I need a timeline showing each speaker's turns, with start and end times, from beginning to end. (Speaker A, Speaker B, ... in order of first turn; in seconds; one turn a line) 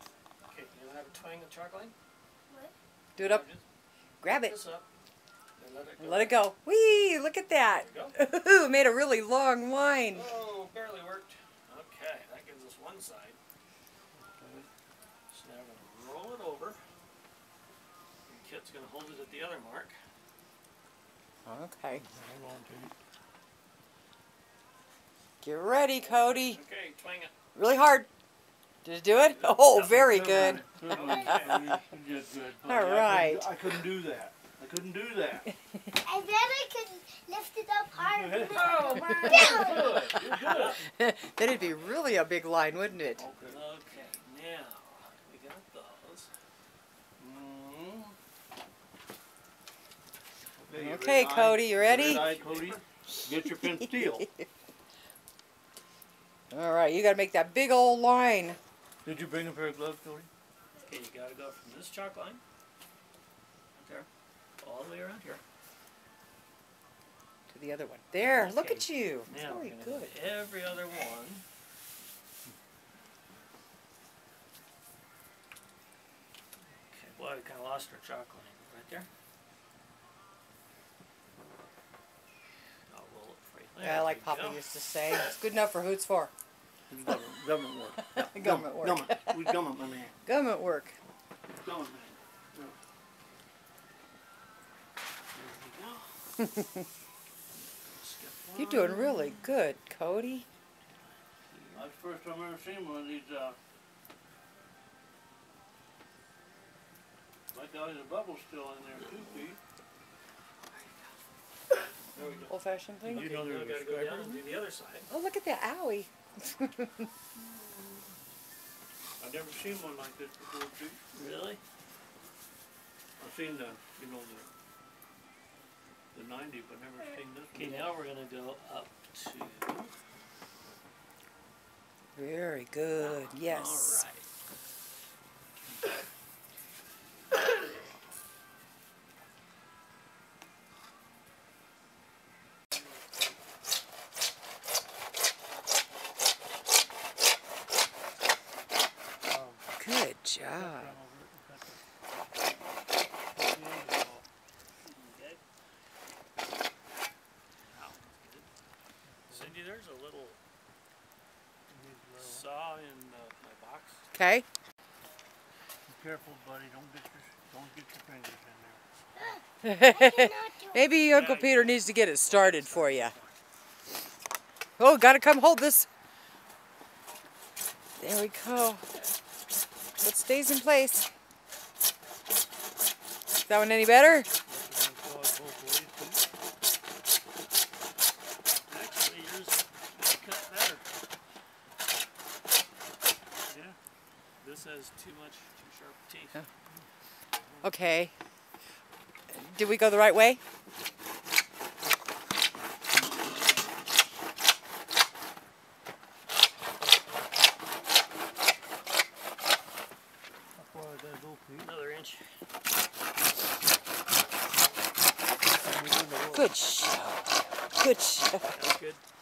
Speaker A: 0.5-1.9
Speaker B: 2.5-2.7
Speaker C: 3.2-3.5
Speaker A: 3.2-3.6
Speaker C: 4.2-4.5
Speaker A: 4.3-4.9
Speaker A: 5.6-6.4
Speaker C: 6.0-10.3
Speaker A: 7.7-8.1
Speaker A: 10.1-13.4
Speaker D: 14.1-14.7
Speaker A: 15.3-16.8
Speaker A: 18.2-19.9
Speaker C: 21.4-22.0
Speaker D: 21.9-22.9
Speaker C: 25.4-26.6
Speaker A: 25.9-27.3
Speaker C: 27.5-28.1
Speaker C: 28.8-30.6
Speaker A: 29.4-31.7
Speaker D: 29.7-35.5
Speaker C: 32.6-33.5
Speaker C: 35.5-35.9
Speaker B: 36.0-40.2
Speaker D: 38.0-40.8
Speaker A: 38.5-39.8
Speaker A: 40.5-40.8
Speaker C: 40.8-43.2
Speaker D: 43.2-43.6
Speaker A: 43.4-46.3
Speaker D: 47.2-48.1
Speaker D: 50.6-54.3
Speaker C: 50.7-52.3
Speaker A: 51.9-52.8
Speaker C: 53.8-54.4
Speaker C: 56.5-58.6
Speaker D: 59.0-60.3
Speaker A: 60.8-62.4
Speaker A: 63.8-64.1
Speaker A: 64.6-65.4
Speaker C: 67.5-70.1
Speaker A: 68.3-71.4
Speaker A: 76.9-79.1
Speaker A: 82.9-84.6
Speaker C: 83.8-86.3
Speaker D: 86.9-90.1
Speaker C: 88.1-89.5
Speaker C: 90.2-90.9
Speaker D: 91.6-92.8
Speaker A: 95.3-96.1
Speaker C: 96.4-96.8
Speaker A: 97.5-99.5
Speaker C: 98.5-100.5
Speaker A: 101.5-101.8
Speaker D: 101.7-103.6
Speaker D: 107.5-109.6
Speaker A: 109.1-109.5
Speaker A: 112.1-112.5
Speaker C: 112.5-113.3
Speaker D: 113.0-114.4
Speaker A: 113.1-115.1
Speaker C: 115.1-117.1
Speaker D: 119.2-121.0
Speaker A: 121.1-121.6
Speaker D: 123.2-124.5
Speaker D: 126.1-127.7
Speaker A: 127.5-129.9
Speaker C: 132.2-134.0
Speaker A: 133.0-134.3
Speaker D: 149.2-149.6
Speaker C: 149.8-150.9
Speaker D: 150.4-151.8
Speaker D: 153.3-154.2
Speaker A: 154.9-155.4
Speaker A: 157.7-158.5
Speaker D: 159.3-159.5
Speaker A: 159.3-160.4
Speaker D: 161.7-162.4
Speaker A: 162.2-164.0
Speaker C: 164.1-164.4
Speaker D: 165.8-168.8
Speaker B: 169.2-170.8
Speaker C: 169.6-173.1
Speaker A: 171.1-173.3
Speaker C: 174.8-175.9
Speaker C: 178.0-178.8
Speaker C: 180.0-181.1
Speaker C: 183.5-184.3
Speaker D: 184.5-186.2
Speaker A: 188.6-190.8
Speaker A: 193.5-193.8
Speaker A: 194.4-196.4
Speaker C: 197.6-198.1
Speaker C: 199.3-200.4
Speaker D: 210.6-211.7
Speaker A: 211.6-212.2
Speaker D: 215.6-216.5
Speaker C: 216.3-218.5
Speaker A: 218.5-219.0